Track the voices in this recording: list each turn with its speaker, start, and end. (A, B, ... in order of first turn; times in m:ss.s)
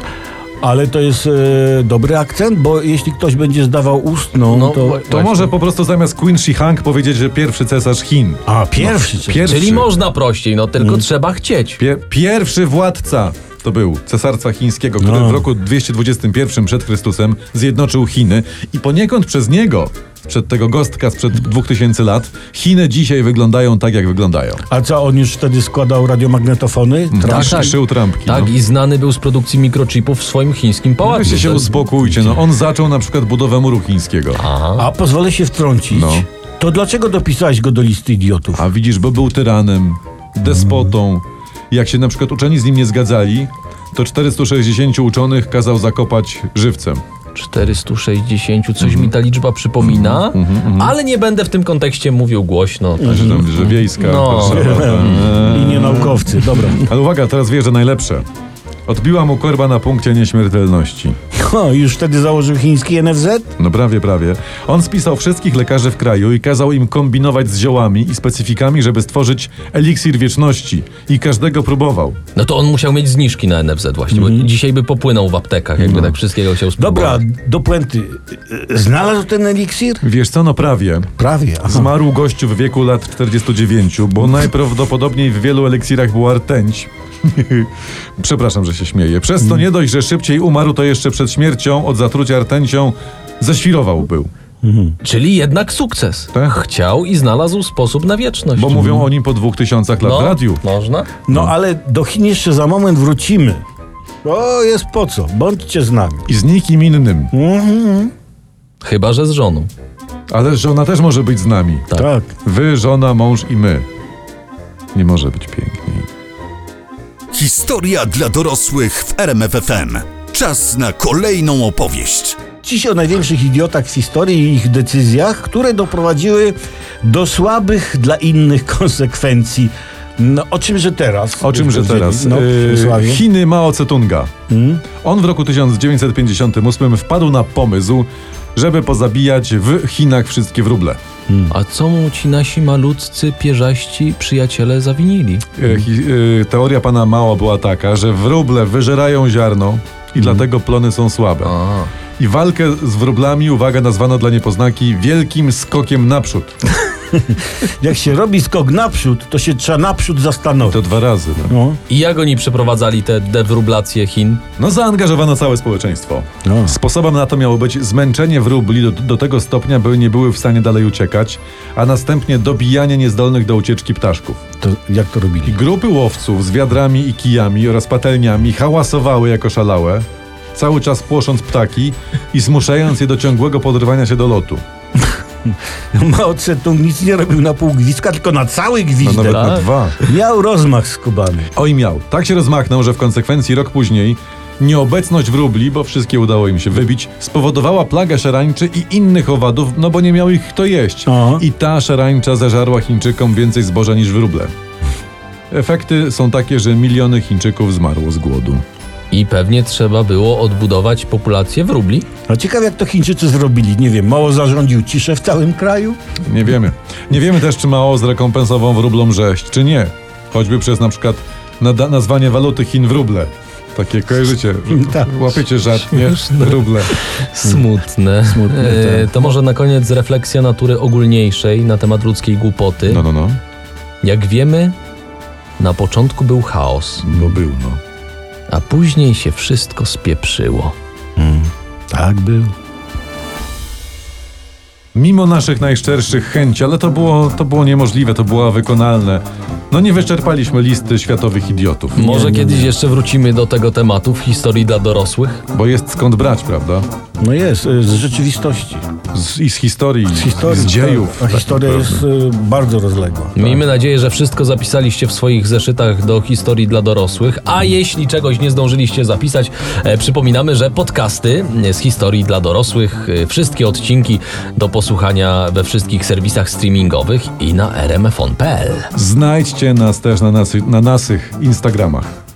0:00.6-0:05.2 A
0:04.5-0:05.5 B
0:05.1-0:09.9 C
0:08.4-0:09.5 A
0:09.4-0:11.8 B
0:10.8-0:11.0 A
0:11.8-0:24.6 C
0:15.0-0:15.5 A
0:24.7-0:27.8 A
0:27.1-0:28.5 C
0:27.2-0:31.7 B
0:31.0-0:34.4 C
0:31.2-0:31.6 A
0:34.4-0:34.9 B
0:34.8-0:38.6 A
0:35.9-0:36.3 C
0:38.5-0:47.0 C
0:40.5-0:40.9 A
0:47.3-0:55.3 B
0:48.8-0:49.1 C
0:49.8-0:51.0 C
0:53.0-0:53.5 A
0:53.1-0:58.2 C
0:54.4-0:56.9 A
0:58.9-1:01.2 C
1:01.4-1:03.5 A
1:03.6-1:12.2 C
1:12.3-1:17.2 B
1:14.1-1:14.5 A
1:15.8-1:16.2 C
1:16.8-1:20.0 A
1:20.0-1:21.1 C
1:21.2-1:21.9 A
1:21.6-1:34.3 C
1:34.6-1:35.0 A
1:35.0-1:39.0 B
1:38.5-1:40.6 C
1:38.8-1:39.1 A
1:40.0-1:41.1 B
1:41.3-1:43.6 A
1:44.2-1:46.2 A
1:46.3-1:47.3 C
1:47.3-1:48.1 A
1:48.8-1:49.7 B
1:50.3-1:51.9 C
1:51.9-1:52.3 A
1:52.4-1:53.8 C
1:54.9-1:56.1 C
1:57.3-2:02.4 D
2:02.6-2:13.2 A
2:11.4-2:14.3 C
2:14.5-2:14.9 A
2:15.0-2:21.0 C
2:21.3-2:21.5 A
2:21.5-2:25.4 B
2:25.6-2:31.5 C
2:30.2-2:30.4 A
2:31.4-2:31.9 B
2:32.2-2:36.5 C
2:37.1-2:40.8 A
2:40.6-2:41.5 C
2:41.5-2:41.8 A
2:41.9-2:44.4 B
2:44.6-2:54.4 C
2:46.4-2:46.8 A
2:54.6-2:55.6 A
2:55.4-3:04.6 C
3:05.0-3:11.5 A
3:09.0-3:10.0 C
3:09.3-3:09.7 B
3:11.5-3:24.5 C
3:21.0-3:21.4 A
3:25.5-3:28.6 C
3:29.1-3:32.1 B
3:32.3-3:36.0 A
3:36.3-3:46.9 C
3:44.7-3:45.4 A
3:45.9-3:53.0 B
3:48.2-3:49.4 A
3:52.8-3:53.4 C
3:54.0-3:54.7 B
3:55.6-3:57.0 B
3:57.0-3:57.8 C
3:58.5-4:00.7 B
4:01.2-4:02.5 A
4:04.9-4:12.1 C
4:12.0-4:15.4 B
4:12.0-4:12.7 A
4:15.5-4:16.9 C
4:17.2-4:18.8 A
4:19.1-4:22.0 C
4:20.1-4:23.6 A
4:23.3-4:38.9 B
4:38.9-4:42.1 C